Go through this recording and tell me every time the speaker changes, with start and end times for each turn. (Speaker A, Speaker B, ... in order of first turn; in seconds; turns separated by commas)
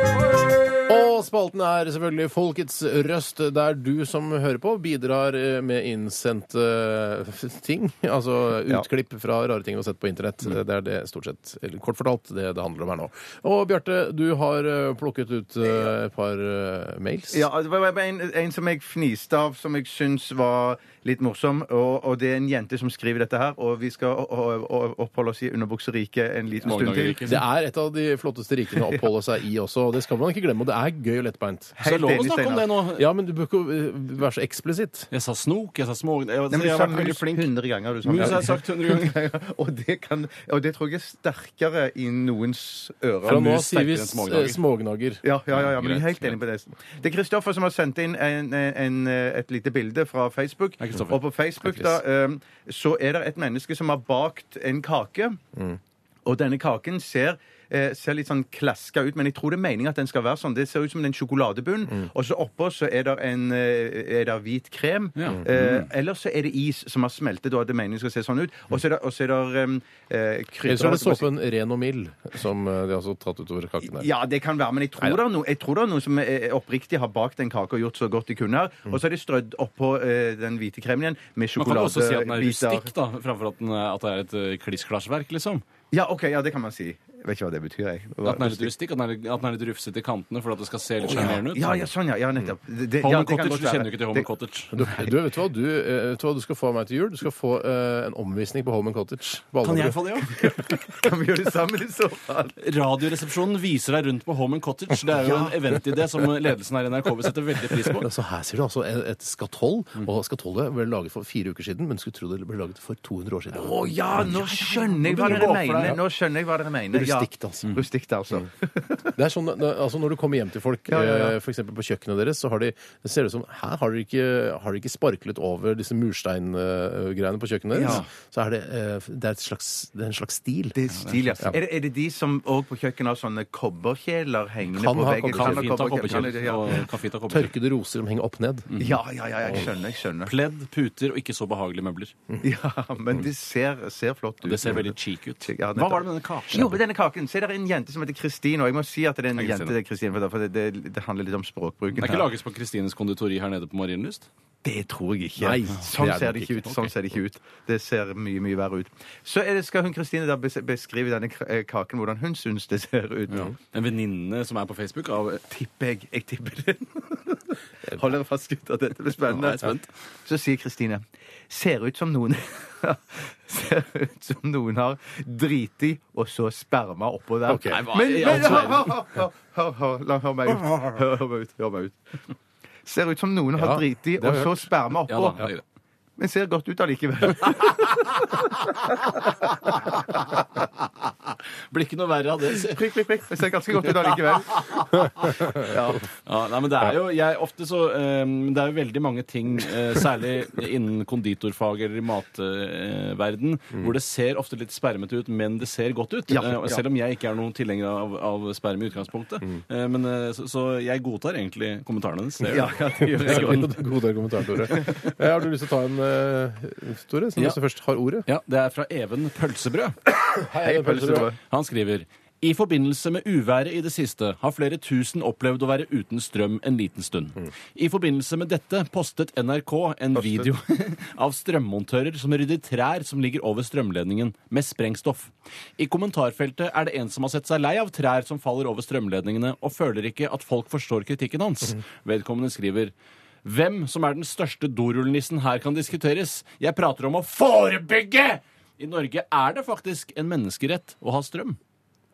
Speaker A: 0.9-17.5, Speaker B: 17.3-27.2, Speaker C: 26.6-27.4, Speaker A: 27.2-31.8, Speaker B: 31.8-32.7, Speaker C: 31.8-33.1, Speaker A: 33.0-35.1, Speaker C: 35.1-37.5, Speaker B: 36.5-43.5, Speaker C: 38.0-39.2, Speaker A: 43.2-45.2, Speaker C: 43.3-44.6, Speaker B: 45.2-55.4, Speaker C: 45.5-46.4, Speaker C: 50.8-51.2, Speaker B: 56.3-71.3, Speaker C: 65.2-65.9, Speaker A: 70.7-74.1, Speaker B: 73.9-82.9, Speaker C: 81.6-85.6, Speaker B: 85.9-88.7, Speaker C: 88.2-91.8, Speaker B: 91.0-94.3, Speaker C: 93.0-94.8, Speaker A: 94.7-100.0, Speaker C: 99.6-100.5, Speaker B: 100.4-102.6, Speaker C: 102.6-108.1, Speaker A: 108.0-116.0, Speaker B: 113.5-119.1, Speaker C: 115.0-116.0, Speaker A: 116.9-117.8, Speaker A: 119.2-130.8, Speaker B: 120.9-121.3, Speaker B: 127.7-128.0, Speaker C: 127.8-128.1, Speaker B: 130.8-136.8, Speaker C: 130.9-131.3, Speaker A: 134.7-136.2, Speaker C: 135.3-137.5, Speaker A: 137.3-138.7, Speaker C: 138.7-139.0, Speaker B: 138.8-140.3, Speaker C: 140.2-142.1, Speaker B: 142.4-152.3, Speaker C: 144.4-146.8, Speaker C: 149.4-149.8, Speaker C: 151.9-154.3, Speaker B: 154.6-163.5, Speaker A: 155.4-156.9, Speaker C: 163.3-165.4, Speaker B: 165.5-182.0, Speaker C: 169.3-169.9, Speaker A: 177.5-178.7, Speaker C: 177.7-178.9, Speaker A: 180.5-180.9, Speaker B: 182.9-185.4, Speaker A: 183.6-184.6, Speaker C: 185.1-185.6, Speaker B: 186.2-188.4, Speaker C: 191.7-192.8, Speaker B: 192.6-196.0, Speaker C: 194.5-195.3, Speaker C: 196.2-213.7, Speaker B: 206.3-206.8, Speaker B: 212.5-213.8, Speaker A: 213.1-218.3, Speaker C: 218.3-220.0, Speaker A: 220.3-221.3, Speaker B: 220.6-221.4, Speaker C: 221.4-242.9, Speaker C: 243.4-251.6